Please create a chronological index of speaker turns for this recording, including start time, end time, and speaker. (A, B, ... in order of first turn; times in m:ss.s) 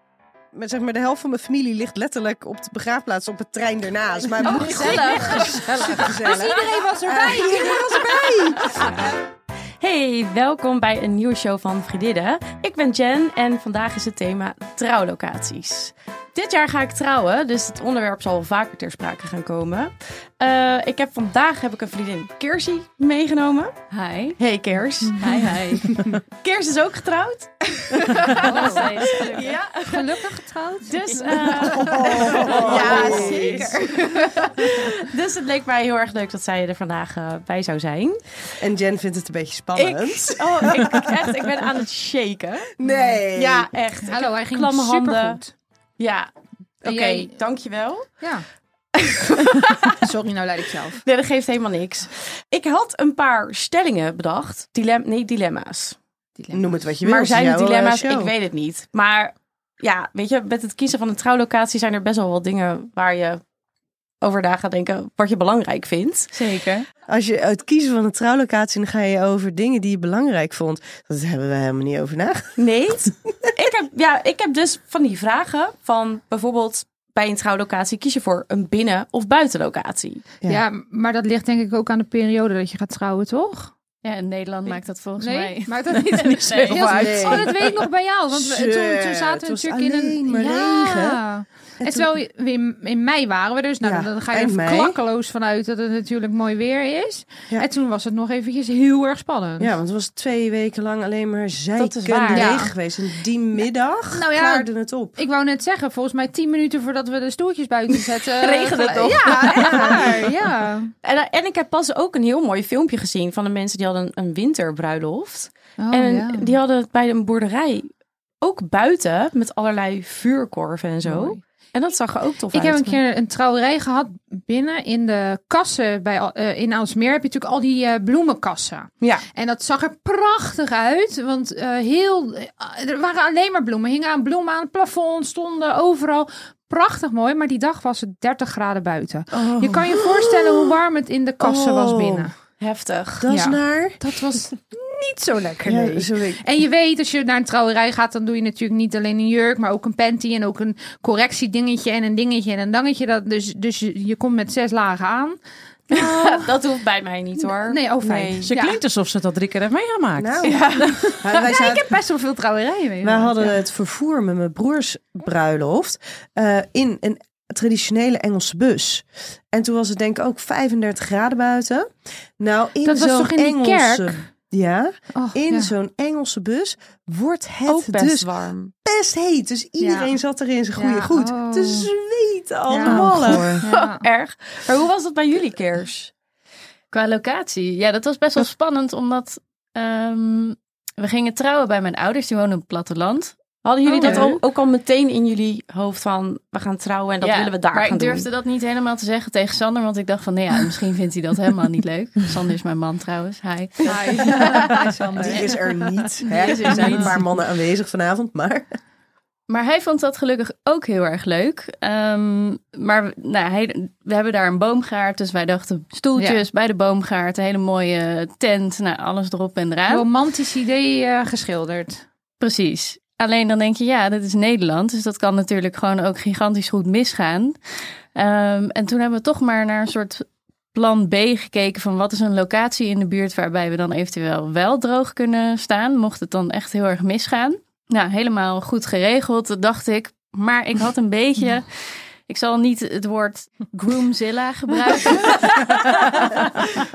0:00.5-0:09.0 A
0:04.4-0:06.0 B
0:04.5-0:09.0 C
0:09.8-0:23.8 B
0:23.9-0:24.4 D
0:24.4-0:25.5 B
0:25.2-0:26.0 D
0:25.2-0:25.5 C
0:26.4-0:30.3 B
0:28.3-0:29.6 D
0:28.4-0:29.2 C
0:29.9-0:33.7 C
0:30.9-0:38.4 B
0:31.5-0:33.8 A
0:38.6-0:41.3 A
0:39.8-0:42.8 B
0:42.8-0:43.7 A
0:42.8-0:43.2 C
0:43.3-0:45.4 B
0:44.0-0:45.5 C
0:46.0-0:46.3 B
0:46.8-0:48.2 B
0:46.9-0:47.3 C
0:49.0-0:50.0 B
0:50.0-0:51.0 C
0:51.0-0:56.0 B
0:56.4-0:56.7 C
0:56.5-0:58.3 A
0:57.0-1:03.4 B
1:04.2-1:06.3 B
1:06.3-1:06.9 D
1:07.1-1:12.6 A
1:12.6-1:20.3 B
1:20.5-1:23.7 C
1:24.0-1:27.3 D
1:25.2-1:39.7 C
1:26.6-1:26.9 E
1:26.8-1:27.6 A
1:28.3-1:31.2 A
1:31.8-1:32.2 A
1:33.8-1:35.0 A
1:39.6-1:45.2 A
1:41.8-1:42.6 B
1:42.3-1:42.7 C
1:44.1-1:50.9 C
1:48.2-1:50.3 B
1:49.4-1:50.3 A
1:51.0-1:57.9 B
1:55.8-1:56.5 C
1:58.4-2:03.0 B
2:01.1-2:01.4 C
2:02.5-2:22.3 C
2:09.0-2:09.3 B
2:19.9-2:20.7 A
2:21.4-2:22.3 A
2:22.6-2:23.3 B
2:23.2-2:24.0 A
2:23.3-2:36.6 C
2:25.6-2:26.4 A
2:35.9-2:38.5 B
2:37.6-2:38.8 C
2:38.4-2:41.2 E
2:40.2-2:40.6 A
2:40.4-2:41.7 B
2:41.2-2:41.9 A
2:41.4-2:43.6 C
2:43.0-2:58.3 A
2:52.8-2:54.2 C
2:55.2-2:55.7 C
2:57.7-2:58.7 B
2:58.8-3:03.6 A
2:59.8-3:00.2 C
3:00.8-3:01.9 C
3:02.7-3:03.1 C
3:02.8-3:03.6 E
3:03.6-3:04.0 C
3:03.6-3:06.1 B
3:06.9-3:13.4 D
3:13.6-3:18.3 B
3:14.0-3:14.3 C
3:14.0-3:14.3 D
3:17.2-3:24.7 D
3:23.8-3:27.0 C
3:24.2-3:24.8 B
3:25.2-3:28.8 A
3:26.2-3:27.2 D
3:29.5-3:40.1 D
3:36.2-3:36.4 C
3:39.9-3:42.0 C
3:42.4-3:47.6 D
3:48.2-4:06.7 D